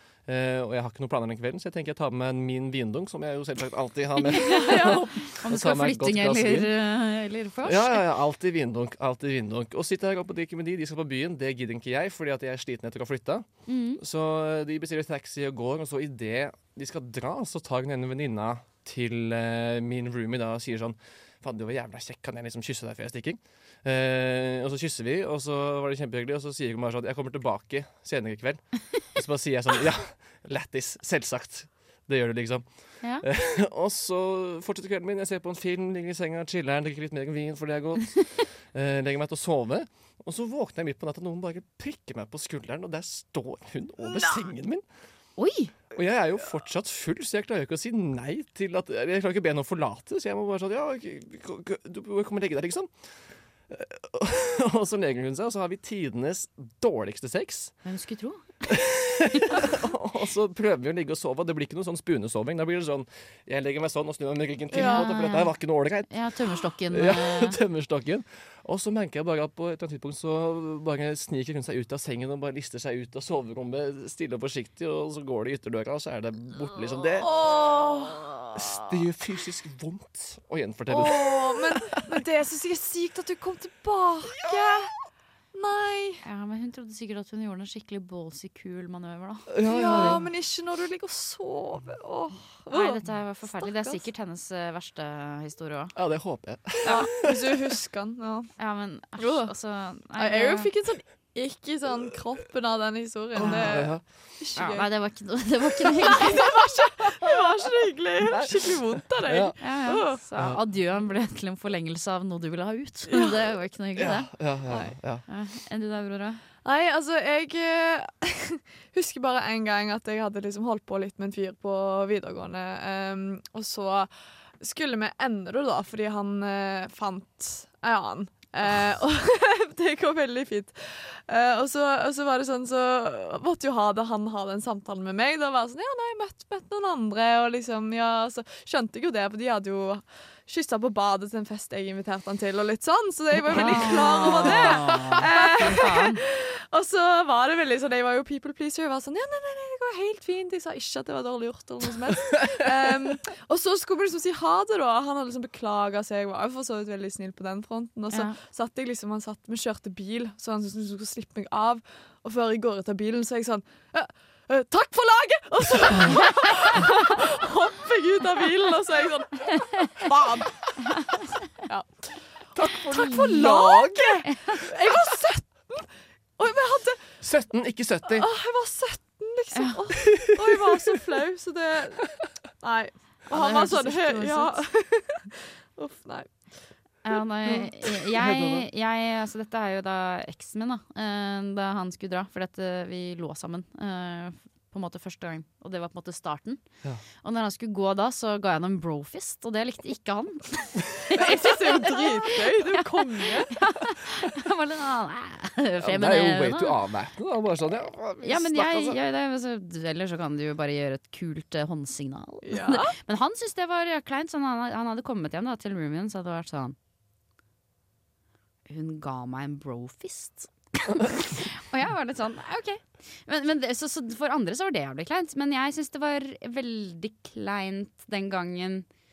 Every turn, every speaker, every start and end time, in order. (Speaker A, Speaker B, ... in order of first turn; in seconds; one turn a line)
Speaker A: 0.3-6.7
Speaker B: 4.3-8.0
Speaker C: 4.5-5.1
Speaker A: 7.6-13.5
Speaker B: 13.7-14.0
Speaker A: 14.0-44.9
Speaker B: 45.4-45.7
Speaker A: 45.9-52.9
Speaker A: 53.7-57.8
Speaker B: 57.8-58.8
Speaker A: 58.7-66.1
Speaker B: 59.4-59.7
Speaker B: 64.7-65.5
Speaker C: 64.7-65.1
Speaker B: 66.1-67.6
Speaker A: 66.9-77.3
Speaker C: 77.2-78.5
Speaker A: 78.5-82.0
Speaker C: 80.9-85.0
Speaker A: 84.4-84.7
Speaker C: 85.5-86.2
Speaker B: 86.2-90.2
Speaker A: 89.5-90.3
Speaker C: 89.7-94.0
Speaker B: 92.7-96.0
Speaker A: 96.0-97.6
Speaker C: 96.8-98.5
Speaker B: 98.6-100.7
Speaker C: 99.2-99.5
Speaker C: 100.2-104.9
Speaker A: 103.4-104.0
Speaker B: 104.6-106.5
Speaker C: 105.8-110.2
Speaker A: 108.2-109.6
Speaker B: 109.6-114.3
Speaker C: 113.1-113.4
Speaker A: 114.0-115.2
Speaker C: 114.7-115.0
Speaker B: 115.3-116.4
Speaker C: 116.6-170.8
Speaker B: 143.5-146.2
Speaker C: 171.7-172.1
Speaker A: 172.6-174.8
Speaker C: 172.7-175.9
Speaker B: 174.3-174.6
Speaker C: 176.4-177.1
Speaker A: 177.2-178.3
Speaker C: 178.1-186.3
Speaker A: 180.2-180.9
Speaker B: 183.3-184.6
Speaker B: 187.1-196.6
Speaker C: 187.1-187.7
Speaker A: 188.1-188.7
Speaker B: 197.2-206.8
Speaker C: 201.1-203.6
Speaker A: 205.8-209.0
Speaker B: 208.2-216.8
Speaker C: 212.4-213.0
Speaker B: 218.7-228.9